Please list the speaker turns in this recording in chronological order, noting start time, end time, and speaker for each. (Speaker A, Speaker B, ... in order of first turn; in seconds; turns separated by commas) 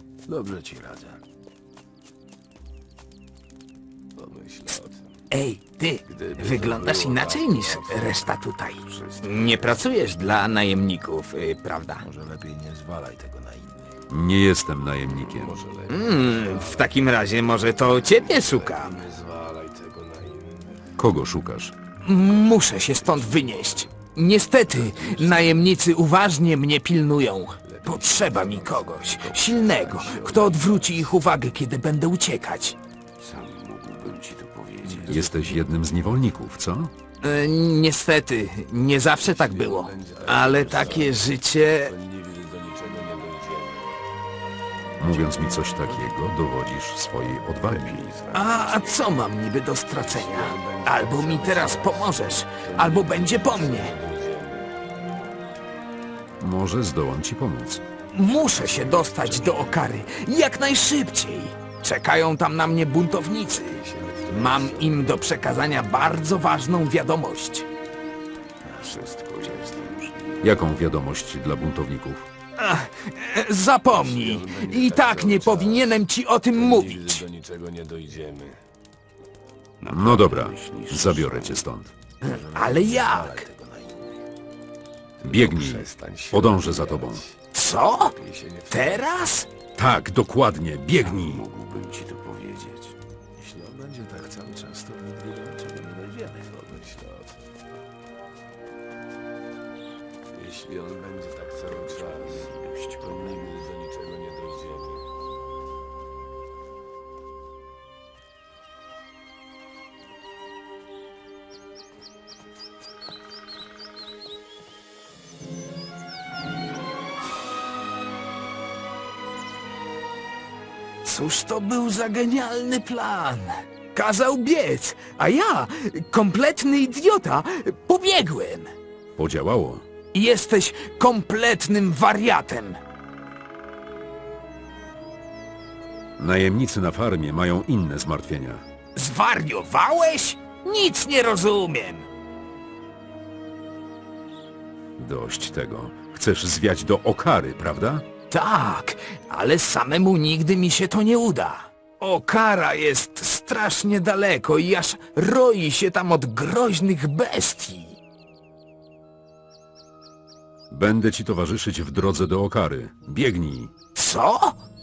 Speaker A: 0.2-1.2, Speaker A: 4.1-5.1, Speaker B: 5.3-12.1, Speaker A: 6.1-9.8, Speaker A: 12.0-13.9, Speaker C: 14.1-15.6, Speaker A: 15.4-16.9, Speaker B: 15.9-19.0, Speaker A: 17.9-20.9, Speaker C: 21.0-21.7, Speaker B: 22.0-32.8, Speaker A: 22.9-23.9, Speaker A: 24.7-25.6, Speaker A: 27.6-31.2, Speaker A: 33.2-35.6, Speaker C: 35.0-36.9, Speaker B: 37.2-41.9, Speaker A: 39.2-41.2, Speaker A: 41.8-44.0, Speaker C: 45.0-48.1, Speaker A: 45.5-46.2, Speaker A: 47.4-49.0, Speaker B: 48.3-53.9, Speaker A: 50.0-54.7, Speaker C: 56.4-57.8, Speaker B: 58.1-67.7, Speaker A: 58.8-59.7, Speaker A: 63.5-65.2, Speaker A: 68.6-70.5, Speaker C: 70.4-72.3, Speaker B: 72.6-77.2, Speaker A: 73.9-76.0, Speaker A: 76.5-78.6, Speaker A: 79.8-81.6, Speaker C: 79.9-81.9, Speaker B: 82.2-83.5, Speaker A: 82.2-84.2, Speaker A: 85.2-87.4, Speaker C: 85.2-87.2, Speaker B: 87.5-88.2, Speaker A: 88.2-89.1, Speaker B: 88.7-89.5, Speaker C: 89.8-91.5, Speaker A: 90.9-97.4, Speaker A: 100.3-105.0, Speaker B: 121.0-128.7, Speaker C: 129.2-129.9, Speaker B: 130.1-132.8, Speaker C: 136.2-138.6, Speaker B: 138.9-142.1, Speaker C: 145.0-148.1, Speaker B: 148.3-158.0, Speaker C: 160.7-163.7, Speaker B: 163.9-164.6